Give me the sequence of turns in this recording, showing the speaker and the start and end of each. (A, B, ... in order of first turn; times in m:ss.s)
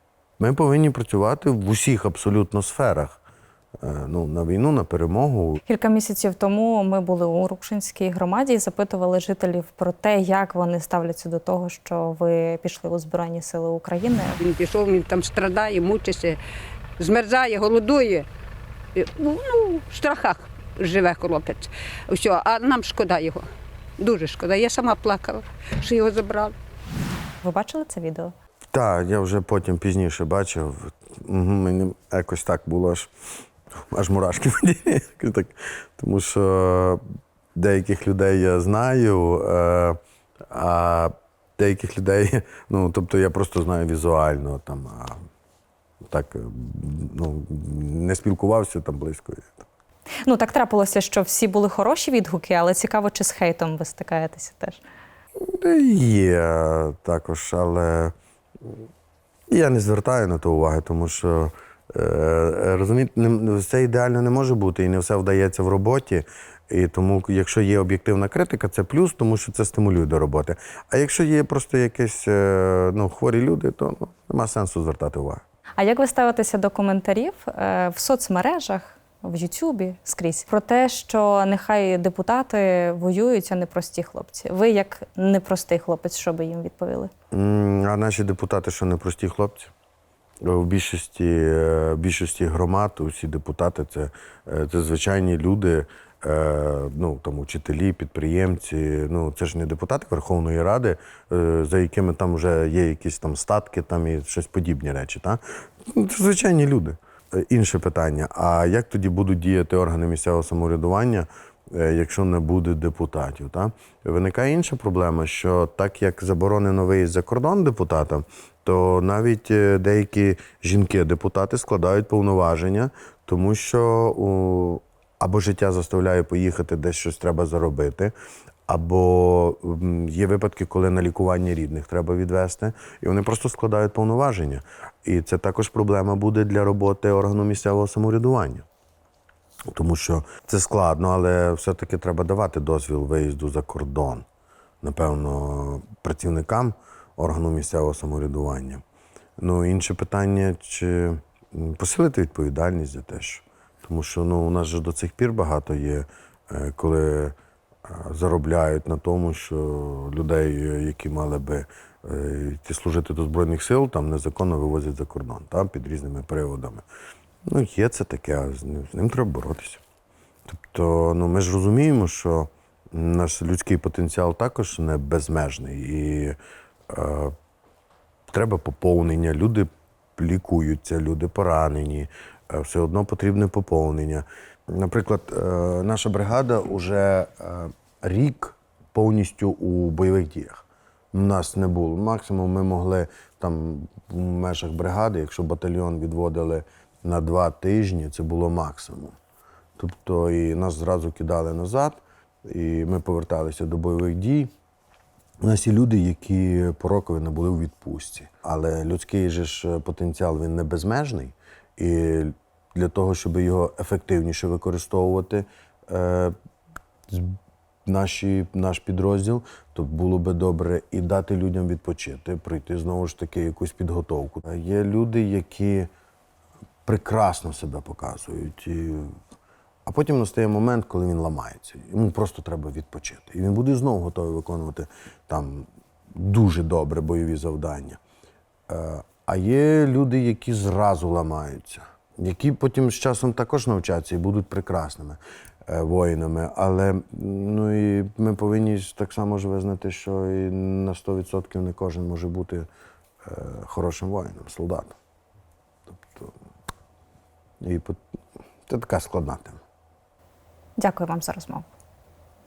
0:00.4-0:03.2 A
0:03.8-0:05.6 A
0:05.7-0:14.4 B
0:14.4-0:16.4 C
0:17.0-0:18.2 C
0:18.9-0:23.4 C
0:24.0-0:26.5 C
0:27.4-0:28.3 B
0:28.7-0:33.1 A
0:33.9-0:37.0 A
0:37.5-0:40.0 A
0:40.5-0:45.2 A
0:46.1-0:49.7 A
0:50.2-0:54.8 B
0:55.4-0:58.1 A
0:59.5-1:15.4 A
1:15.8-1:27.1 B
1:27.3-1:29.7 A
1:30.4-2:08.1 A
2:08.7-2:18.6 A
2:19.7-2:24.2 A
2:24.8-2:28.8 A
2:29.4-2:37.3 A
2:37.9-2:46.8 A
2:47.5-2:49.8 A
2:50.5-2:56.4 A
2:56.9-2:57.3 A
2:58.3-3:19.2 A
3:19.8-3:24.5 A
3:25.4-3:36.3 A
3:37.1-3:45.9 A
3:46.8-3:49.2 A
3:49.8-3:58.0 A
3:58.7-4:12.7 A
4:13.2-4:15.0 A
4:15.9-4:16.3 A
4:17.6-4:18.0 A
4:18.7-4:19.6 A
4:20.8-4:21.6 B